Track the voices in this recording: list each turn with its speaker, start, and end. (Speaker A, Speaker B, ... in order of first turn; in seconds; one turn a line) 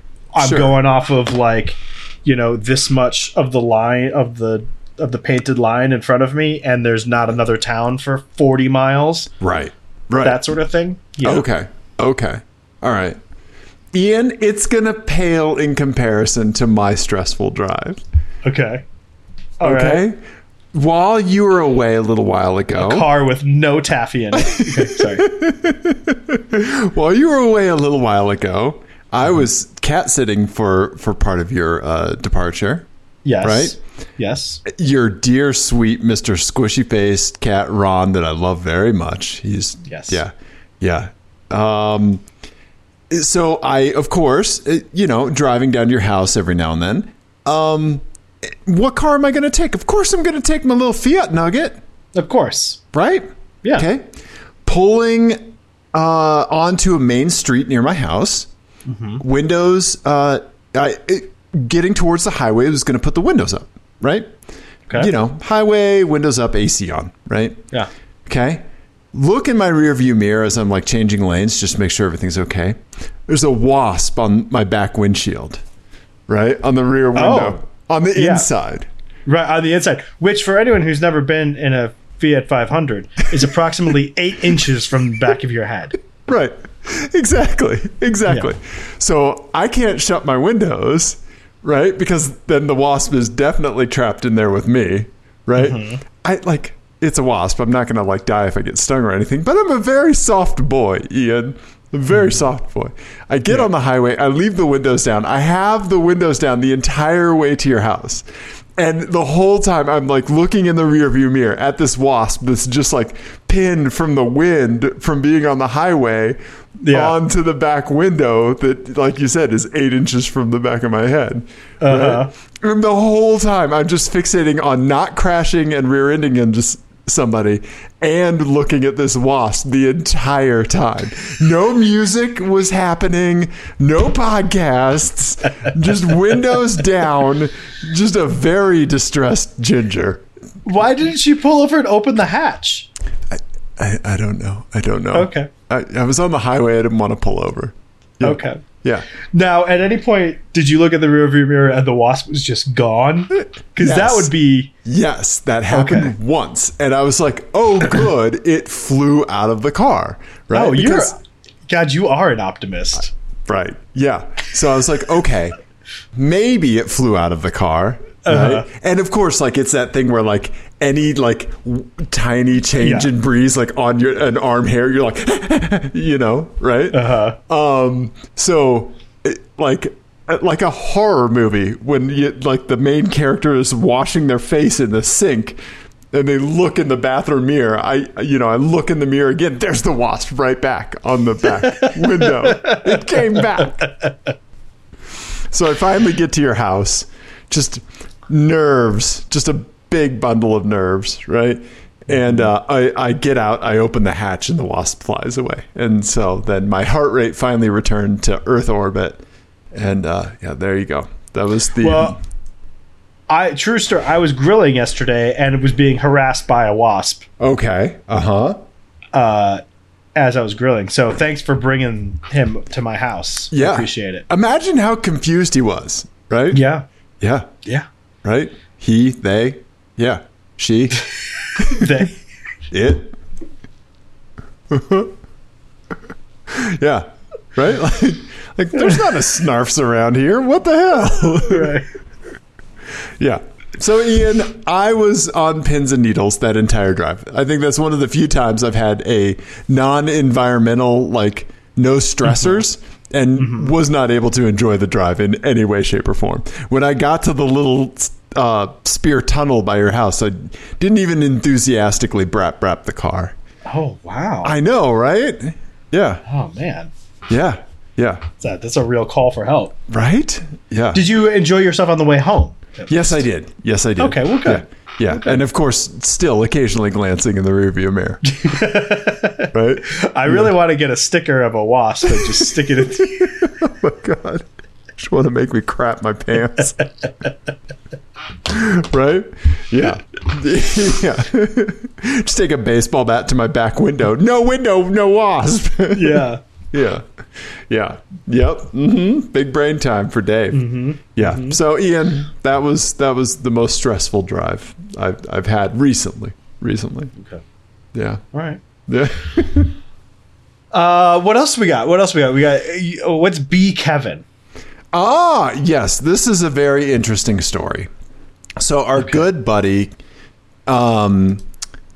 Speaker A: 0.3-9.3
Speaker B: 0.4-0.7
Speaker B: 9.4-10.4
Speaker A: 10.2-11.5
Speaker B: 11.2-13.2
Speaker B: 13.9-18.0
Speaker A: 18.4-18.9
Speaker A: 19.6-20.0
Speaker B: 19.6-20.2
Speaker B: 20.7-23.1
Speaker A: 22.8-25.3
Speaker B: 24.4-32.9
Speaker A: 33.2-34.6
Speaker B: 33.4-33.8
Speaker B: 34.6-42.2
Speaker A: 39.9-40.2
Speaker B: 43.1-51.8
Speaker A: 52.1-52.8
Speaker B: 52.9-54.1
Speaker B: 54.6-58.5
Speaker A: 58.9-59.2
Speaker B: 59.2-64.3
Speaker B: 65.0-67.6
Speaker B: 68.3-75.6
Speaker B: 76.3-78.9
Speaker A: 77.2-77.6
Speaker A: 78.2-78.5
Speaker A: 79.3-86.0
Speaker B: 86.3-108.2
Speaker A: 95.5-96.0
Speaker B: 108.8-116.4
Speaker A: 116.8-117.2
Speaker B: 116.9-140.2
Speaker A: 121.8-122.3
Speaker A: 140.7-142.9
Speaker B: 143.3-149.1
Speaker A: 145.1-145.5
Speaker A: 148.2-148.6
Speaker A: 149.3-154.7
Speaker B: 153.8-154.3
Speaker B: 154.8-161.1
Speaker A: 155.7-156.1
Speaker A: 160.5-163.1
Speaker B: 163.5-165.6
Speaker B: 166.1-185.6
Speaker A: 168.2-168.7
Speaker A: 172.8-173.1
Speaker A: 176.9-177.4
Speaker B: 186.1-193.9
Speaker A: 191.7-193.4
Speaker B: 195.5-209.2
Speaker A: 202.1-202.5
Speaker B: 209.7-212.2
Speaker A: 211.8-212.2
Speaker A: 213.3-217.3
Speaker B: 217.4-218.6
Speaker A: 219.1-219.6
Speaker A: 220.2-224.3
Speaker B: 223.5-226.6
Speaker A: 226.5-226.8
Speaker B: 227.2-227.5
Speaker B: 228.2-231.0
Speaker B: 231.6-231.9
Speaker A: 231.6-232.2
Speaker B: 232.7-233.2
Speaker B: 234.7-235.1
Speaker B: 236.5-241.8
Speaker A: 241.4-241.9
Speaker B: 243.2-263.4
Speaker A: 253.4-253.7
Speaker A: 263.7-264.6
Speaker B: 264.4-266.2
Speaker A: 266.2-266.9
Speaker B: 267.3-268.3
Speaker A: 268.4-269.8
Speaker B: 269.9-271.0
Speaker A: 270.9-273.2
Speaker B: 272.9-278.2
Speaker A: 274.0-275.4
Speaker A: 278.3-283.5
Speaker B: 279.5-280.5
Speaker B: 282.1-286.8
Speaker B: 288.4-307.1
Speaker A: 295.9-296.4
Speaker A: 300.5-301.6
Speaker A: 307.2-307.4
Speaker B: 307.9-308.2
Speaker A: 308.3-308.6
Speaker B: 308.9-309.8
Speaker A: 310.7-314.2
Speaker B: 314.9-317.9
Speaker B: 318.6-319.9
Speaker B: 320.7-321.4